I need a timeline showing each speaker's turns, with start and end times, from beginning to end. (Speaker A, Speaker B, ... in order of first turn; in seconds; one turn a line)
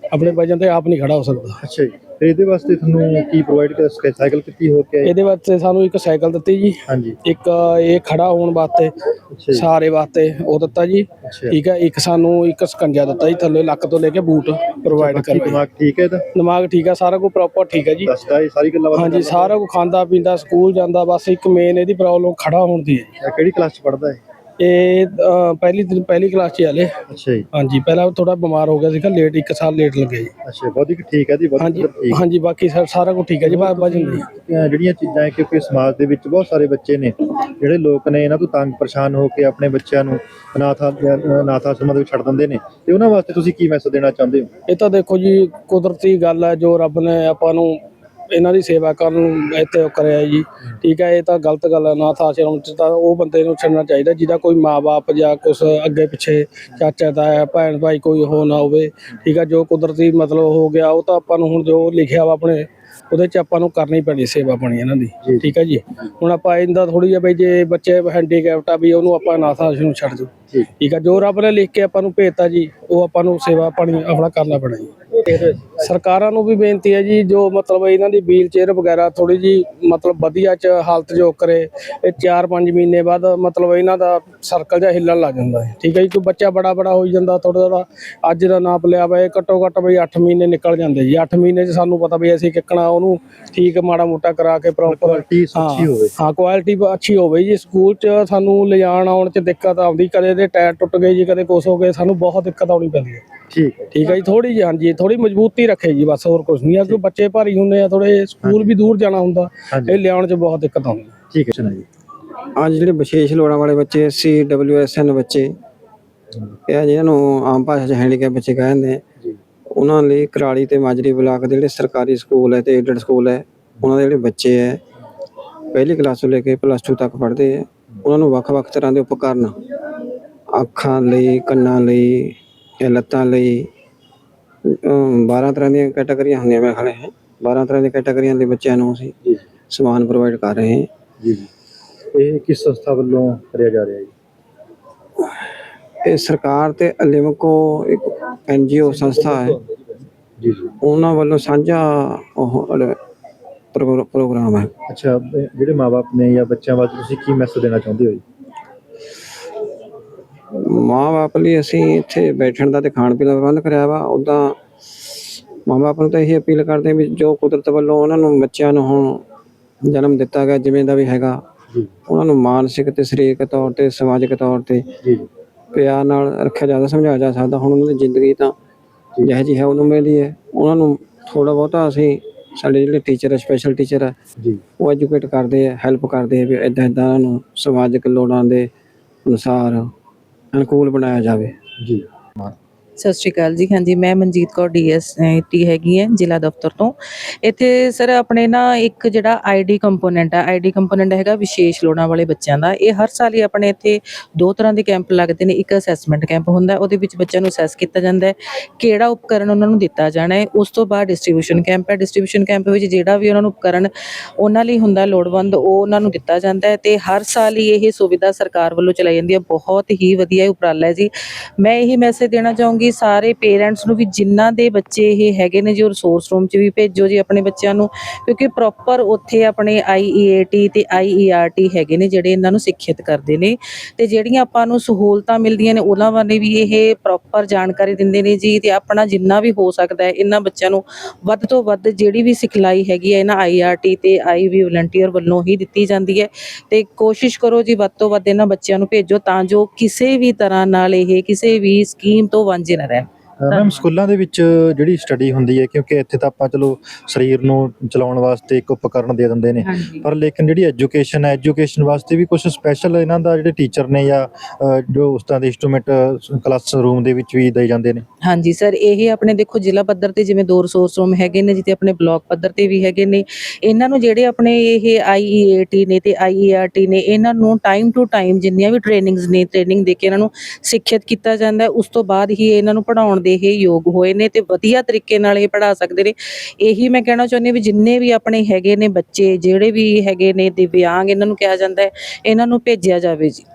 Speaker A: 0.1-1.6
Speaker B: 1.6-5.1
Speaker A: 5.0-8.9
Speaker B: 6.9-7.2
Speaker B: 9.3-9.7
Speaker A: 9.5-15.6
Speaker B: 11.2-11.6
Speaker B: 14.9-16.2
Speaker A: 16.4-18.1
Speaker B: 18.0-19.6
Speaker A: 18.9-23.1
Speaker B: 23.2-24.2
Speaker A: 24.6-26.9
Speaker B: 27.1-27.5
Speaker A: 27.5-30.3
Speaker B: 30.4-32.2
Speaker A: 31.6-34.2
Speaker B: 33.4-44.5
Speaker A: 44.7-47.8
Speaker A: 48.3-75.1
Speaker B: 65.2-65.5
Speaker B: 75.2-75.8
Speaker A: 75.8-103.2
Speaker B: 94.8-96.1
Speaker B: 103.5-103.9
Speaker A: 103.9-111.1
Speaker B: 108.4-108.7
Speaker B: 109.7-110.0
Speaker B: 111.3-111.9
Speaker C: 112.6-115.6
Speaker C: 116.7-119.0
Speaker C: 119.7-124.8
Speaker C: 125.7-129.6
Speaker C: 130.5-133.7
Speaker C: 134.7-139.1
Speaker C: 139.7-140.9
Speaker B: 141.2-141.5
Speaker B: 142.1-144.1
Speaker C: 145.2-149.6
Speaker B: 148.9-149.8
Speaker B: 150.4-150.7
Speaker C: 150.8-153.0
Speaker C: 153.7-154.7
Speaker B: 154.9-158.2
Speaker C: 160.6-169.2
Speaker C: 169.9-171.4
Speaker C: 172.1-174.9
Speaker C: 175.7-178.6
Speaker C: 179.2-184.2
Speaker C: 184.8-188.7
Speaker C: 189.2-189.9
Speaker C: 190.5-191.6
Speaker B: 191.8-192.6
Speaker D: 193.0-253.8
Speaker B: 253.4-268.0
Speaker D: 259.6-260.1
Speaker D: 268.2-293.4